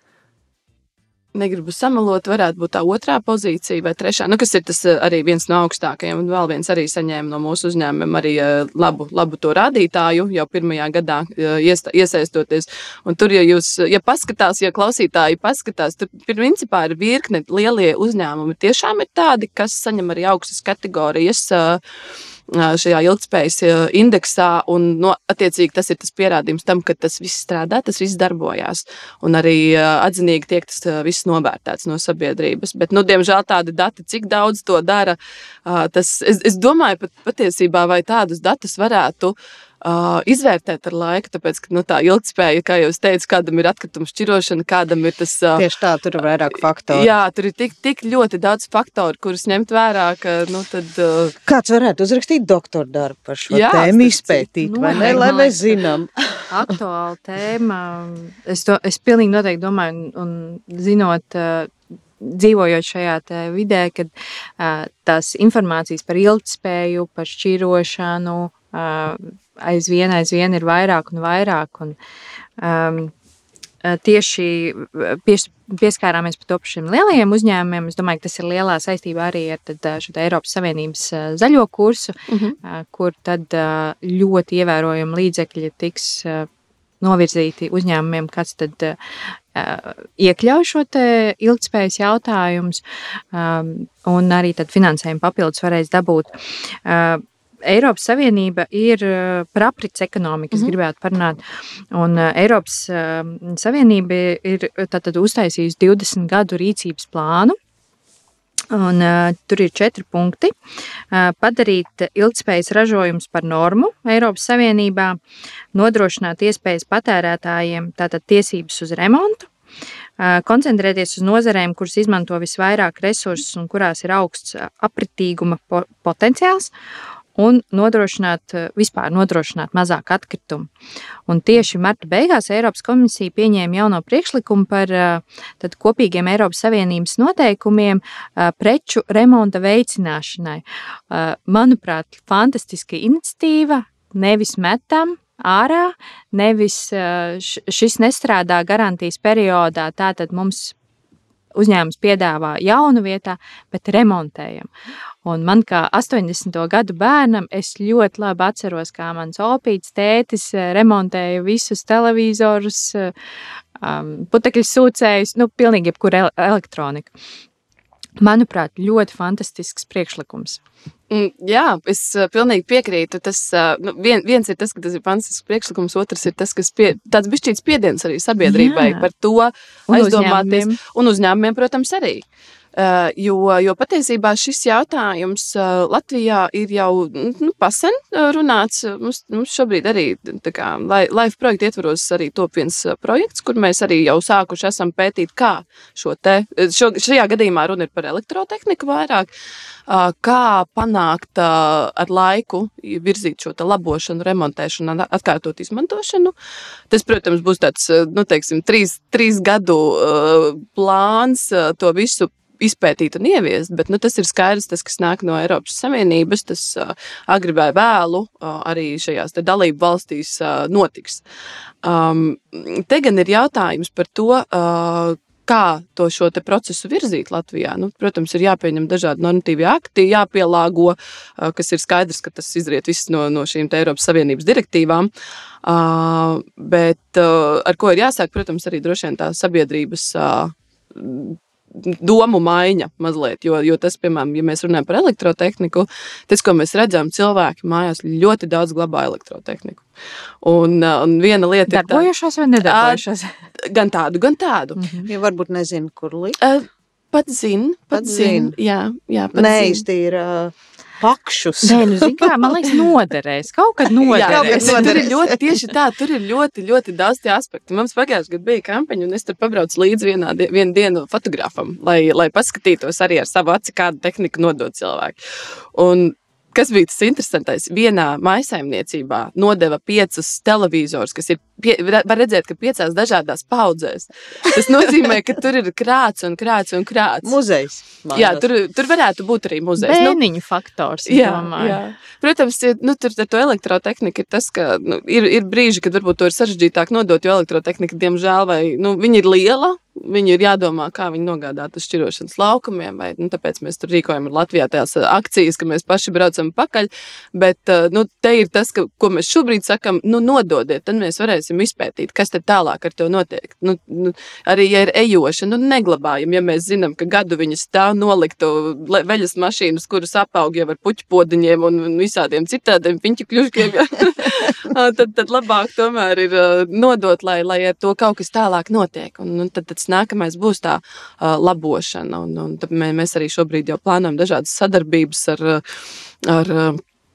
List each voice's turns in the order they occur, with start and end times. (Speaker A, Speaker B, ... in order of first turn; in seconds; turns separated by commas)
Speaker A: 1.3-21.8, Speaker A: 22.5-45.6, Speaker B: 45.5-47.1, Speaker A: 46.9-51.4, Speaker B: 51.5-56.7, Speaker A: 53.5-55.4, Speaker C: 54.6-55.7, Speaker C: 56.5-72.0, Speaker C: 72.6-73.1, Speaker C: 73.8-86.5, Speaker A: 82.3-82.5, Speaker C: 87.0-89.0, Speaker C: 89.5-92.8, Speaker C: 93.3-101.4, Speaker C: 101.9-107.5, Speaker C: 108.7-110.5, Speaker C: 111.1-115.2, Speaker C: 115.7-119.5, Speaker C: 120.2-126.7, Speaker C: 127.4-130.7, Speaker C: 131.3-150.7, Speaker C: 151.5-154.7, Speaker C: 155.2-163.1, Speaker C: 163.8-167.1, Speaker C: 168.2-170.6, Speaker A: 171.1-182.2, Speaker C: 178.4-179.1, Speaker C: 179.9-180.8, Speaker A: 182.7-199.3, Speaker A: 199.9-206.3, Speaker A: 206.9-221.2, Speaker A: 221.8-235.1, Speaker A: 235.6-249.8, Speaker A: 250.4-252.1, Speaker C: 251.7-253.3, Speaker A: 252.6-253.0, Speaker A: 253.6-254.8, Speaker C: 254.8-255.1, Speaker B: 255.1-256.4, Speaker A: 256.4-259.8, Speaker B: 257.9-258.6, Speaker B: 259.3-262.5, Speaker C: 261.6-265.1, Speaker B: 264.1-265.5, Speaker A: 264.1-275.2, Speaker A: 275.7-287.3, Speaker B: 287.2-288.4, Speaker A: 288.1-290.2, Speaker C: 289.8-291.8, Speaker A: 291.1-335.6, Speaker A: 336.2-336.8